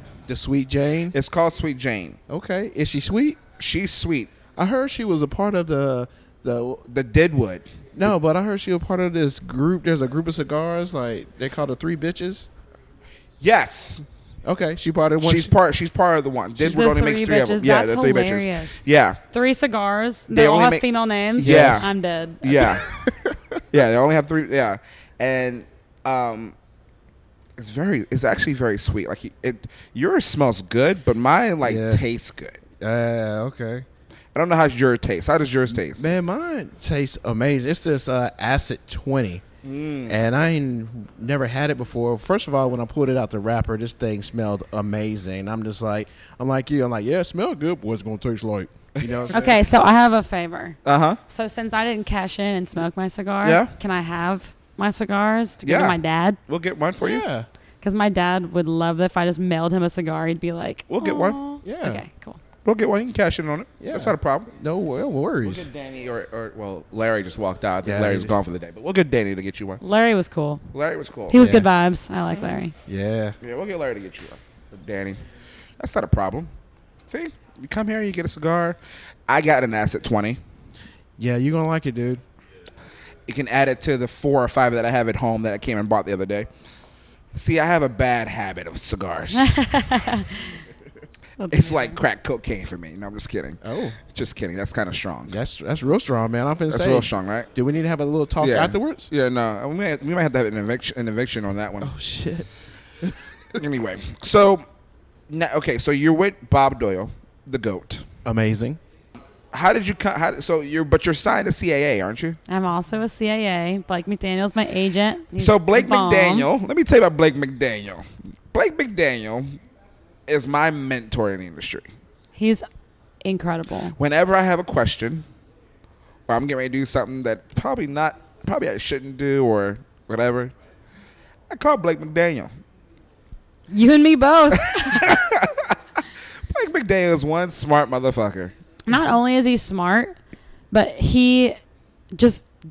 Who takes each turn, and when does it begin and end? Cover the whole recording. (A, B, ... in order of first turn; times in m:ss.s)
0:00.3-0:01.2 A
0:01.1-0:02.2 B
0:02.3-0:03.4 A
0:03.6-0:04.4 B
0:04.5-0:06.8 A
0:06.9-0:07.7 B
0:07.9-0:12.5 A
0:13.4-0:14.0 B
0:14.4-0:15.5 A
0:15.2-0:19.2 B
0:16.6-0:22.8 C
0:20.3-0:21.9 B
0:21.4-0:21.9 A
0:22.4-0:22.8 B
0:22.8-0:23.6 A
0:23.7-0:26.5 B
0:27.6-0:32.6 B
0:31.6-0:32.0 A
0:32.8-0:33.8 A
0:34.3-0:36.1 B
0:35.7-0:39.4 A
0:39.6-0:40.2 B
0:40.1-0:49.6 A
0:49.0-0:49.4 B
0:49.3-0:56.4 C
0:50.8-0:51.2 B
0:53.4-0:53.7 B
0:55.6-0:57.2 B
0:57.0-0:57.5 A
0:57.8-1:02.4 C
1:00.9-1:01.4 B
1:01.6-1:02.0 A
1:02.6-1:04.5 B
1:03.8-1:05.7 A
1:05.4-1:09.8 B
1:07.8-1:08.4 A
1:09.8-1:10.6 C
1:10.7-1:11.4 B
1:11.3-1:12.7 C
1:11.3-1:11.7 A
1:12.8-1:13.4 A
1:13.4-1:15.2 B
1:15.8-1:16.5 B
1:17.1-1:18.8 B
1:19.3-1:20.4 B
1:21.2-1:22.2 A
1:23.3-1:26.5 B
1:27.3-1:29.6 B
1:29.3-1:30.6 C
1:31.4-1:32.0 C
1:31.5-1:35.4 B
1:33.6-1:34.0 A
1:35.3-1:39.1 A
1:36.7-1:37.5 B
1:38.4-1:41.9 B
1:41.8-1:42.5 A
1:43.0-1:43.6 A
1:43.5-1:44.6 B
1:45.3-1:48.0 B
1:48.2-1:48.8 A
1:49.5-1:52.4 B
1:52.5-1:56.5 C
1:55.4-1:59.6 B
2:00.3-2:01.9 B
2:02.3-2:02.7 C
2:03.2-2:04.0 C
2:04.0-2:05.2 B
2:06.3-2:10.5 B
2:11.5-2:12.5 B
2:13.7-2:15.2 C
2:14.9-2:15.8 B
2:16.5-2:18.5 B
2:18.9-2:20.1 C
2:20.7-2:21.6 C
2:22.1-2:22.5 C